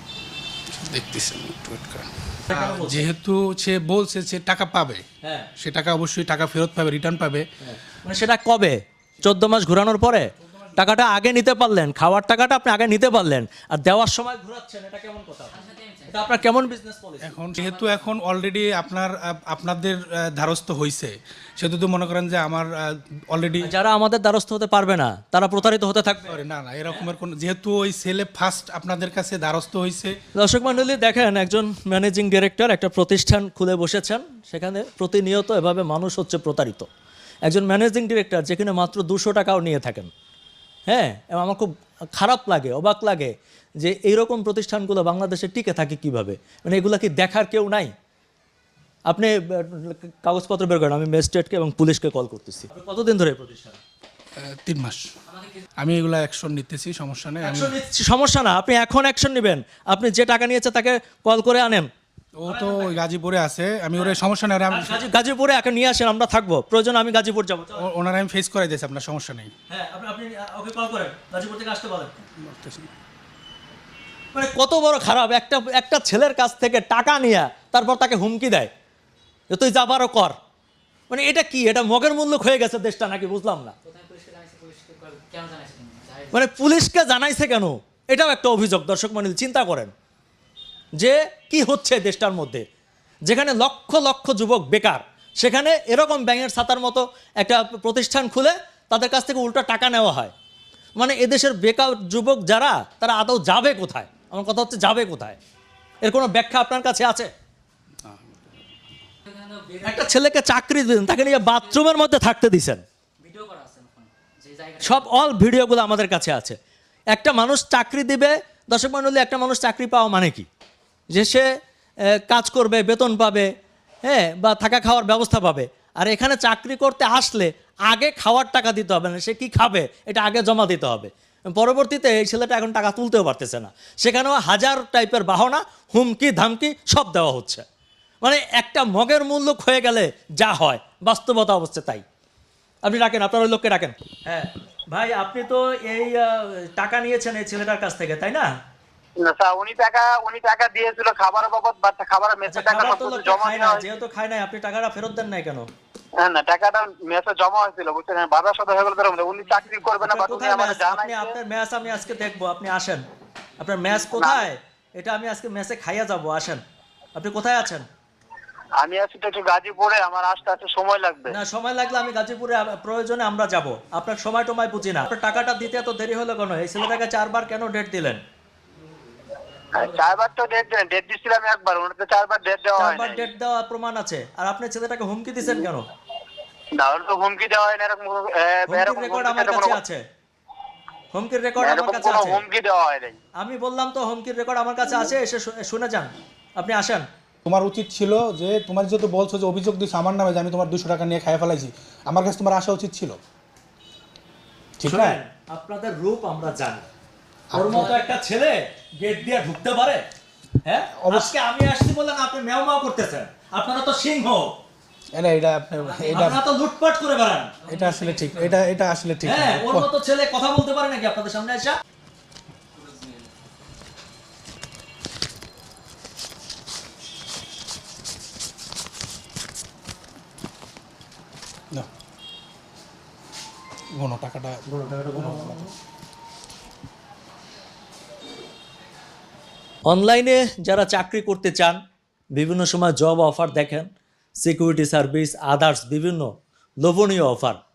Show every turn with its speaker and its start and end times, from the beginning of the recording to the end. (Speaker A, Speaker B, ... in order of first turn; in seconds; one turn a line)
Speaker A: 0.7-5.0
Speaker B: 2.5-3.1
Speaker B: 5.2-5.5
Speaker A: 5.6-7.5
Speaker B: 7.6-17.3
Speaker A: 10.4-10.8
Speaker C: 15.5-16.3
Speaker A: 17.2-23.7
Speaker C: 17.6-18.0
Speaker B: 23.6-27.1
Speaker A: 26.2-30.2
Speaker B: 30.3-36.9
Speaker B: 37.5-40.1
Speaker B: 40.9-47.9
Speaker B: 49.1-53.8
Speaker A: 54.4-55.1
Speaker A: 55.8-57.7
Speaker B: 57.4-61.9
Speaker A: 62.4-65.0
Speaker B: 62.5-63.0
Speaker B: 64.7-67.8
Speaker A: 67.8-69.5
Speaker B: 69.7-72.3
Speaker A: 72.4-72.9
Speaker B: 74.3-78.7
Speaker B: 79.5-80.3
Speaker B: 81.1-83.7
Speaker C: 83.8-86.4
Speaker B: 86.3-89.9
Speaker B: 91.0-92.7
Speaker B: 93.2-100.3
Speaker B: 101.0-105.4
Speaker B: 106.0-107.3
Speaker C: 109.3-110.1
Speaker B: 109.8-112.8
Speaker C: 111.3-111.7
Speaker C: 113.2-115.1
Speaker B: 114.8-116.6
Speaker B: 117.1-120.5
Speaker B: 121.1-121.5
Speaker B: 122.2-123.5
Speaker B: 124.0-137.6
Speaker B: 138.2-142.0
Speaker B: 142.8-148.5
Speaker D: 149.2-153.8
Speaker B: 152.4-155.7
Speaker D: 156.2-161.4
Speaker C: 159.2-159.9
Speaker B: 160.0-163.0
Speaker B: 163.6-166.6
Speaker D: 164.0-164.5
Speaker B: 167.1-167.8
Speaker D: 168.8-171.3
Speaker B: 171.3-178.2
Speaker D: 179.7-183.3
Speaker B: 182.8-185.9
Speaker D: 186.8-189.8
Speaker B: 188.7-190.0
Speaker B: 191.1-192.4
Speaker D: 191.6-193.2
Speaker B: 193.4-197.1
Speaker A: 197.4-203.2
Speaker A: 204.8-205.2
Speaker B: 204.8-206.9
Speaker A: 207.5-207.9
Speaker B: 207.5-210.0
Speaker B: 210.6-214.5
Speaker A: 211.0-211.3
Speaker A: 215.1-216.4
Speaker B: 216.1-217.6
Speaker C: 217.6-218.6
Speaker A: 217.7-219.9
Speaker B: 219.2-221.8
Speaker A: 234.0-234.6
Speaker B: 234.7-235.7
Speaker A: 235.1-235.6
Speaker B: 239.9-241.8
Speaker B: 242.3-243.9
Speaker B: 244.4-247.6